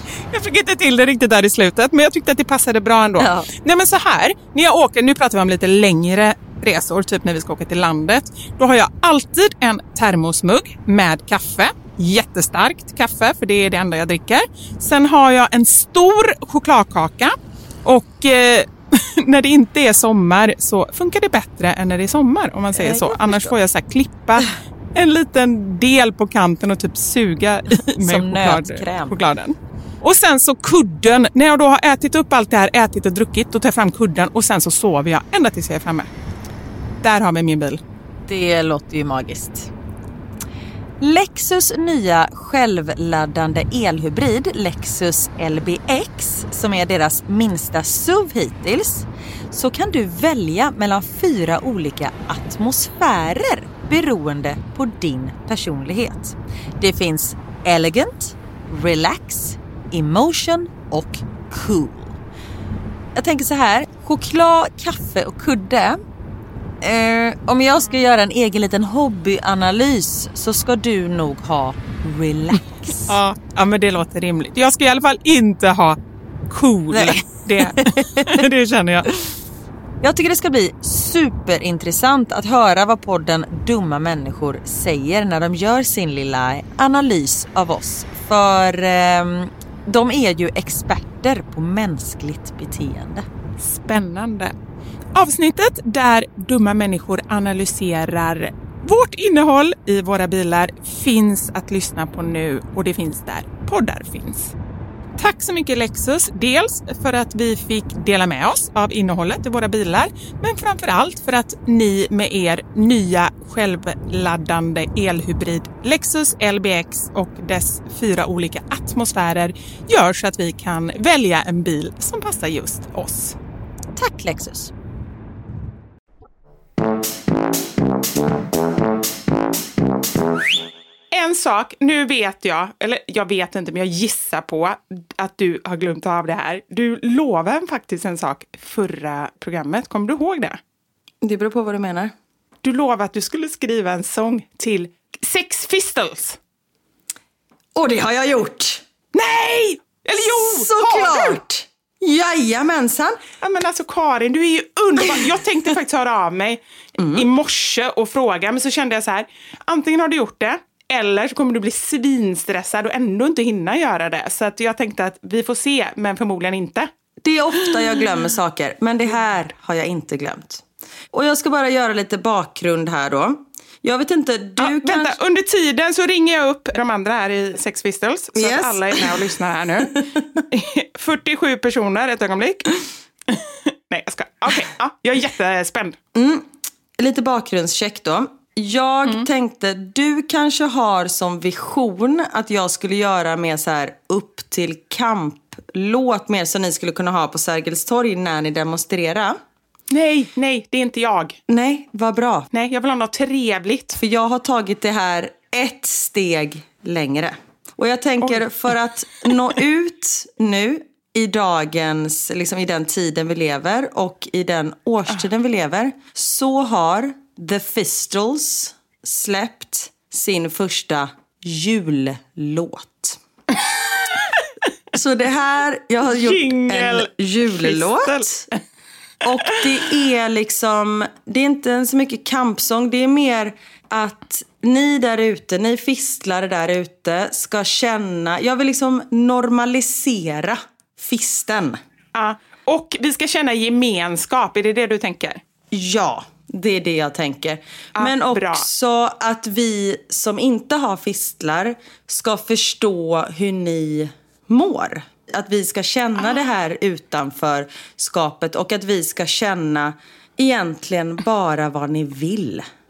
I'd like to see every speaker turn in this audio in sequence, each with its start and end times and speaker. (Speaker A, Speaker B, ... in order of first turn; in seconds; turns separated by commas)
Speaker A: 0.3-36.1, Speaker B: 3.2-3.5, Speaker B: 22.8-23.5, Speaker C: 28.1-28.8, Speaker A: 37.0-37.8, Speaker C: 38.3-39.7, Speaker C: 41.0-62.2, Speaker C: 63.2-66.0, Speaker C: 66.8-73.1, Speaker A: 73.1-76.0, Speaker A: 76.5-79.1, Speaker C: 76.9-78.4, Speaker C: 80.0-93.3, Speaker A: 93.6-94.5, Speaker A: 95.1-104.5, Speaker A: 105.2-123.4, Speaker C: 124.0-124.7, Speaker A: 131.1-140.6, Speaker B: 141.2-142.1, Speaker A: 142.6-146.4, Speaker B: 147.7-148.8, Speaker A: 149.1-151.4, Speaker B: 150.2-153.2, Speaker A: 153.4-156.6, Speaker B: 157.0-157.3, Speaker A: 157.1-166.9, Speaker B: 167.2-175.2, Speaker A: 174.6-182.8, Speaker B: 178.3-180.4, Speaker A: 183.3-185.9, Speaker B: 186.1-186.5, Speaker B: 187.0-199.4, Speaker A: 199.9-201.4, Speaker B: 201.5-202.5, Speaker A: 202.5-204.0, Speaker B: 204.0-223.2, Speaker B: 224.9-228.5, Speaker A: 226.1-228.6, Speaker B: 229.2-241.8, Speaker A: 242.1-245.4, Speaker B: 245.7-262.6, Speaker A: 247.9-248.7, Speaker A: 256.2-256.5